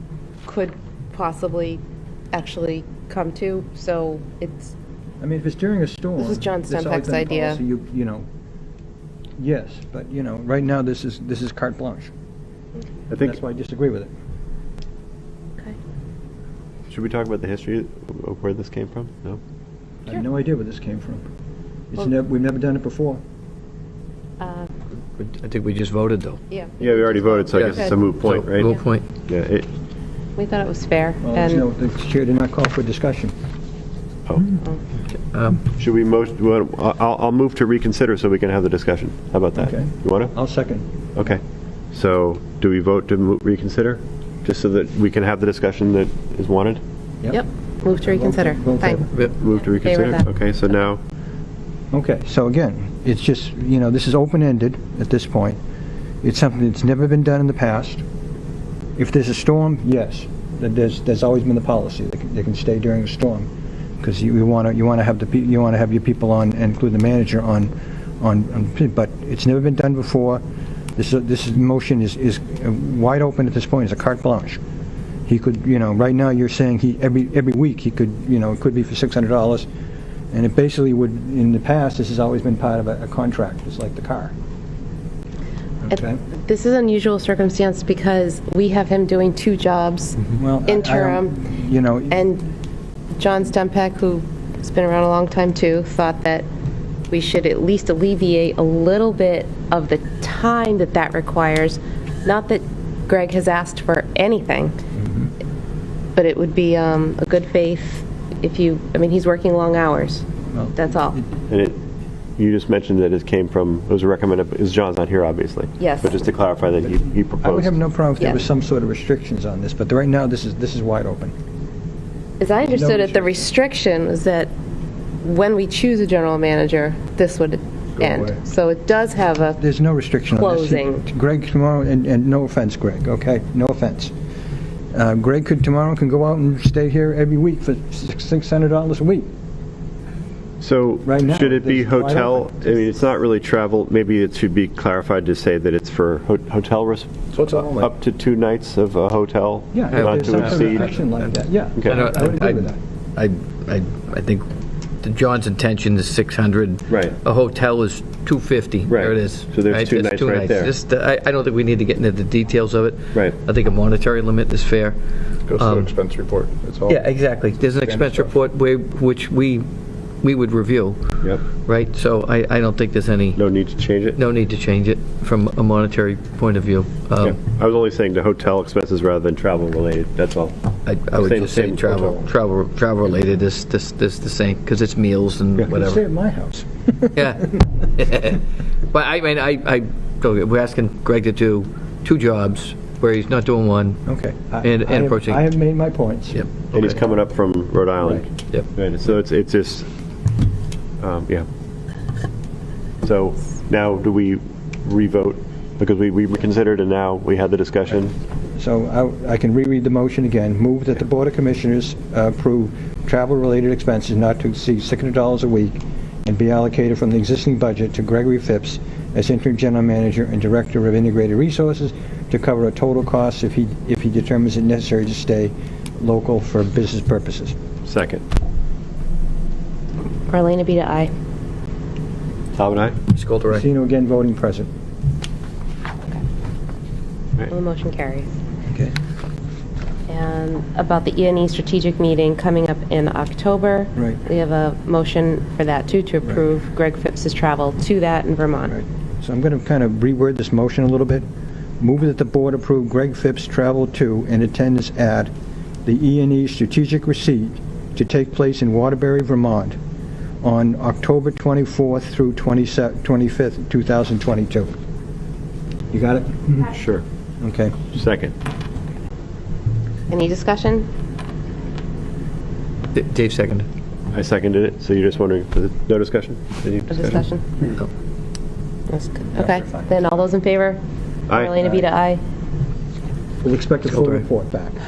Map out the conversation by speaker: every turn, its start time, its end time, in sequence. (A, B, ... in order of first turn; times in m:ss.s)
0:00.5-0:04.7 A
0:05.2-0:08.2 B
0:06.2-0:07.6 A
0:09.4-0:12.1 B
0:13.1-0:13.4 C
0:13.2-0:14.1 B
0:16.9-0:19.4 C
0:20.1-0:21.2 B
0:21.9-0:23.2 B
0:24.4-0:24.7 A
0:25.2-0:26.4 D
0:26.5-0:28.8 A
0:26.8-0:28.8 C
0:27.5-0:29.0 D
0:29.3-0:29.7 C
0:30.4-0:31.7 A
0:31.2-0:33.3 B
0:34.3-0:34.6 C
0:35.3-0:35.6 D
0:35.7-0:40.3 C
0:39.6-0:40.8 B
0:41.2-0:41.4 C
0:41.9-0:46.8 C
0:47.3-0:49.3 A
0:48.0-0:49.1 B
0:49.4-0:51.0 C
0:49.8-0:50.3 A
0:51.9-0:55.6 B
0:56.2-0:58.0 B
0:59.0-1:03.5 B
1:04.0-1:10.4 B
1:11.0-1:14.6 B
1:15.3-1:19.7 B
1:20.3-1:24.3 B
1:25.8-1:26.2 B
1:26.3-1:31.4 A
1:30.2-1:32.2 B
1:32.1-1:32.5 A
1:33.2-1:36.5 A
1:37.1-1:44.8 A
1:45.0-1:45.3 B
1:46.2-1:51.2 A
1:50.5-1:51.3 B
1:51.5-1:51.8 C
1:52.4-1:57.8 C
1:55.8-1:56.2 A
1:57.4-2:01.3 B
2:02.4-2:04.5 A
2:02.7-2:03.4 B
2:05.2-2:09.6 A
2:08.0-2:08.4 B
2:09.6-2:14.1 B
2:10.3-2:11.0 A
2:14.9-2:19.3 B
2:20.6-2:27.1 C
2:21.0-2:22.8 B
2:27.3-2:27.8 E
2:27.5-2:27.9 B
2:27.7-2:30.9 C
2:29.7-2:32.8 B
2:29.9-2:30.9 D
2:31.8-2:32.1 C
2:31.9-2:34.5 D
2:35.0-2:45.0 D
2:36.9-2:37.2 C
2:38.9-2:40.7 C
2:45.5-2:47.1 E
2:45.6-2:45.9 D
2:46.9-2:49.7 D
2:47.7-2:48.3 E
2:50.2-2:53.4 D
2:53.4-2:54.2 C
2:54.2-2:57.4 D
2:57.2-3:00.6 C
3:00.8-3:06.0 D
3:01.2-3:02.3 C
3:05.7-3:07.4 B
3:07.2-3:14.0 D
3:14.1-3:16.5 B
3:14.6-3:15.5 D
3:16.3-3:17.0 D
3:16.7-3:19.9 C
3:18.0-3:18.3 B
3:21.0-3:21.5 C
3:23.0-3:28.1 C
3:28.6-3:47.6 B
3:47.8-3:48.2 C
3:50.3-3:51.1 A
3:52.5-3:53.0 C
3:53.1-3:53.6 D
3:53.5-3:54.7 B
3:57.5-3:58.3 A
4:00.1-4:08.8 A
4:08.7-4:11.3 B
4:11.8-4:15.3 B
4:15.8-4:19.8 B
4:20.4-4:24.7 B
4:25.9-4:26.7 B
4:26.6-4:27.0 C
4:27.4-4:27.8 B
4:27.9-4:28.3 C
4:30.1-4:30.9 A
4:32.9-4:33.7 D
4:34.1-4:37.2 C
4:36.9-4:37.5 A
4:38.9-4:42.2 A
4:39.3-4:40.0 B
4:43.4-4:44.8 B
4:44.0-4:44.2 D